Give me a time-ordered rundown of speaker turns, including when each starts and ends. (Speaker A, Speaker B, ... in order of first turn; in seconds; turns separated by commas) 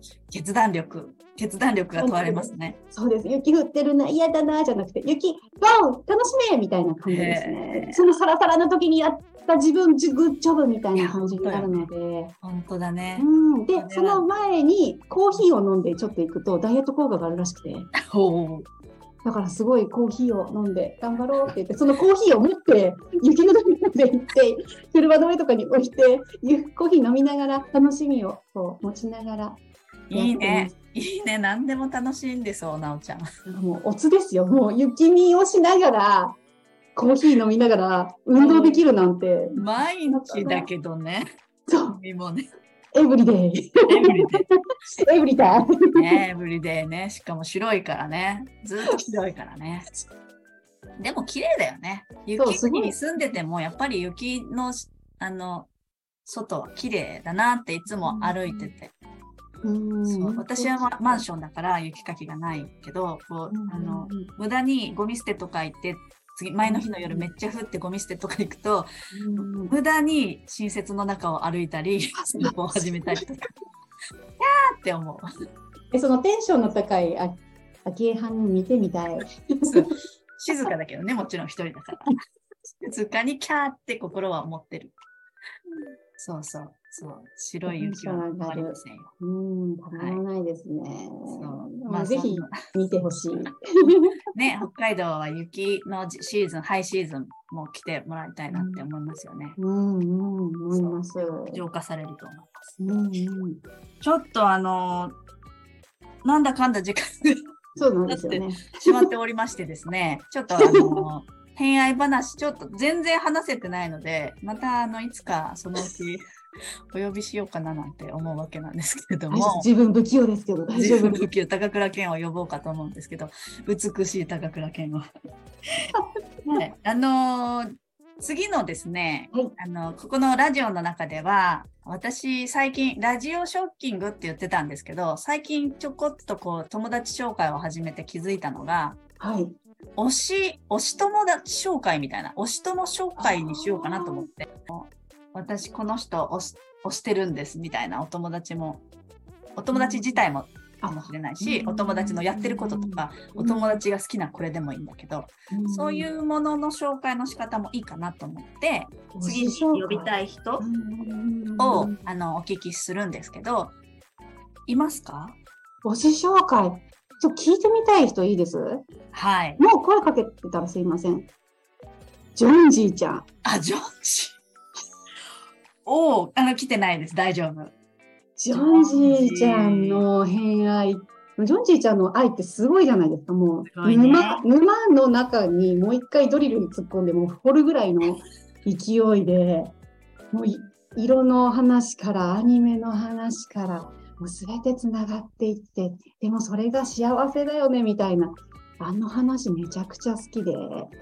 Speaker A: 0.3-2.8, Speaker B: 2.0-12.3, Speaker A: 7.1-8.0, Speaker A: 10.9-11.9, Speaker A: 12.4-14.2, Speaker B: 13.2-17.9, Speaker A: 17.9-18.7, Speaker B: 19.2-29.6, Speaker A: 30.1-33.3, Speaker B: 30.1-30.7, Speaker B: 33.5-36.4, Speaker B: 37.0-40.7, Speaker A: 38.4-38.9, Speaker A: 39.5-41.2, Speaker B: 41.7-42.0, Speaker A: 41.9-42.5, Speaker B: 42.9-44.3, Speaker A: 43.9-44.5, Speaker B: 45.0-46.2, Speaker A: 45.7-49.9, Speaker A: 51.0-55.7, Speaker B: 52.4-53.0, Speaker A: 56.2-58.9, Speaker B: 58.0-58.7, Speaker B: 59.6-61.2, Speaker A: 60.0-68.9, Speaker B: 63.5-64.3, Speaker B: 66.6-67.3, Speaker B: 69.1-69.8, Speaker A: 69.6-73.5, Speaker B: 72.2-73.2, Speaker A: 74.4-75.3, Speaker B: 75.9-79.8, Speaker A: 79.7-82.1, Speaker A: 82.8-85.0, Speaker A: 86.2-89.1, Speaker B: 87.7-94.2, Speaker A: 90.0-90.2, Speaker A: 91.3-92.6, Speaker A: 94.3-99.6, Speaker B: 98.5-98.9, Speaker B: 99.6-101.6, Speaker A: 100.7-102.8, Speaker B: 102.8-103.6, Speaker A: 104.0-105.2, Speaker A: 106.2-107.4, Speaker B: 107.8-109.1, Speaker A: 108.1-116.2, Speaker B: 110.6-111.0, Speaker A: 116.9-119.7, Speaker B: 119.3-121.3, Speaker A: 120.8-125.1, Speaker B: 126.0-126.5, Speaker A: 126.5-139.0, Speaker B: 139.2-139.6, Speaker A: 140.0-148.8, Speaker B: 143.2-144.3, Speaker A: 149.6-160.6, Speaker B: 149.7-150.2, Speaker B: 150.8-153.8, Speaker B: 155.5-156.1, Speaker B: 159.1-162.1, Speaker A: 161.6-163.8, Speaker A: 164.7-165.4, Speaker B: 165.8-168.9, Speaker A: 169.1-169.6, Speaker B: 169.6-171.3, Speaker B: 172.3-173.3, Speaker A: 173.4-174.4, Speaker A: 175.8-177.8, Speaker B: 178.4-189.7, Speaker A: 178.5-180.1, Speaker A: 183.7-184.4, Speaker B: 190.3-200.9